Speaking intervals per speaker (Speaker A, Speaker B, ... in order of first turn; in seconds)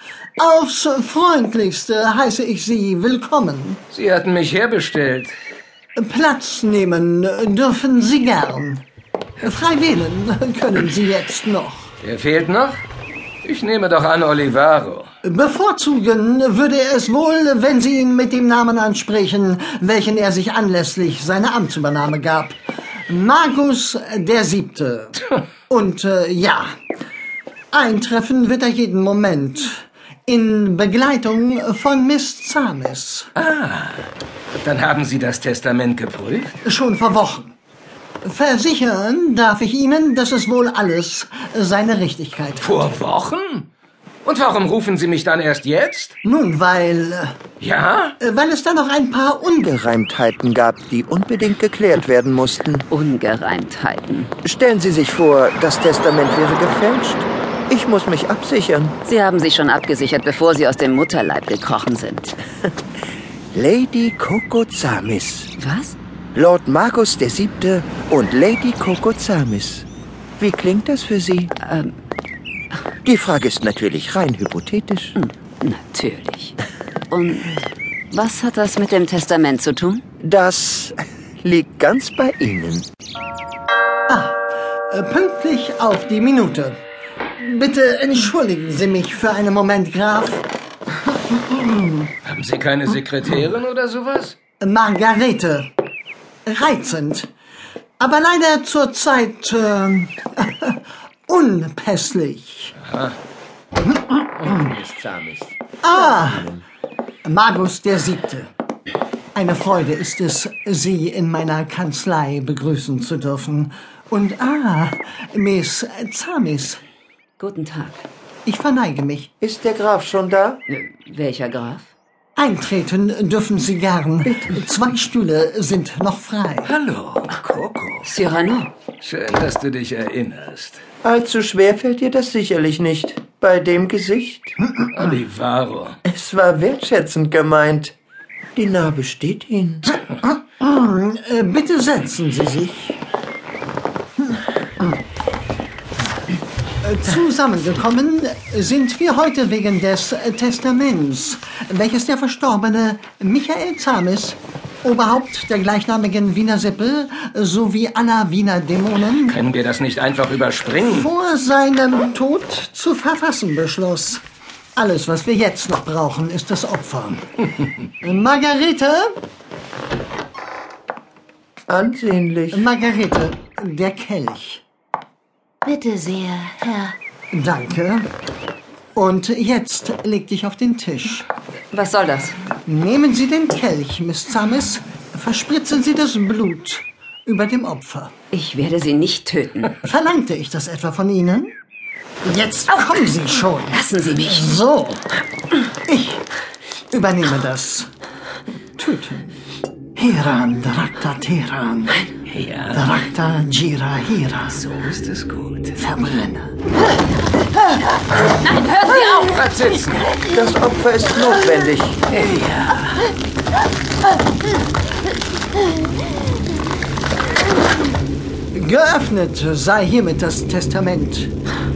Speaker A: 0.4-3.8, 6.0-8.8, 9.4-11.9, 15.2-26.7, 27.7-33.3, 36.6-37.6, 38.2-42.9, 46.2-47.4, 48.2-49.7, 84.1-86.8, 87.4-90.5, 91.1-92.1, 94.6-95.7, 96.5-97.3, 98.0-102.8, 105.8-106.5, 107.2-108.5, 109.3-116.8, 118.5-119.3, 122.4-126.7, 140.1-143.0, 144.3-145.0, 146.8-159.4, 160.8-164.2, 164.8-167.3, 168.0-169.1, 172.5-174.6, 177.3-178.1, 178.9-181.3, 182.6-188.1, 189.8-191.6, 192.2-195.1, 195.9-196.3, 196.9-197.9, 198.8-199.3, 200.0-202.1, 202.7-204.6, 205.8-206.6, 218.5-221.3
Speaker B: 3.9-5.3, 12.0-12.8, 13.4-15.1, 33.4-36.5, 42.6-43.7, 44.2-46.2, 47.6-48.2, 92.2-94.3, 102.9-103.2, 104.5-104.7, 126.7-128.1, 129.0-130.8, 134.9-136.0, 159.3-161.1, 202.3-202.9, 204.6-205.8, 208.3-210.3, 212.1-212.9
Speaker C: 49.6-52.9, 54.4-59.0, 63.5-65.5, 66.3-69.9, 70.4-71.5, 73.0-75.2, 80.2-82.9, 104.6-106.6, 119.4-120.6, 124.3-124.6, 131.0-134.6, 136.1-137.9, 138.6-139.9, 171.7-172.7, 210.3-212.0
Speaker D: 52.9-54.3, 59.0-62.4, 65.6-66.0, 71.6-72.0, 75.2-76.6, 77.1-80.0, 117.4-118.0, 120.7-121.9, 128.0-128.7, 175.7-177.0, 181.7-182.4, 188.3-189.9, 193.7-194.6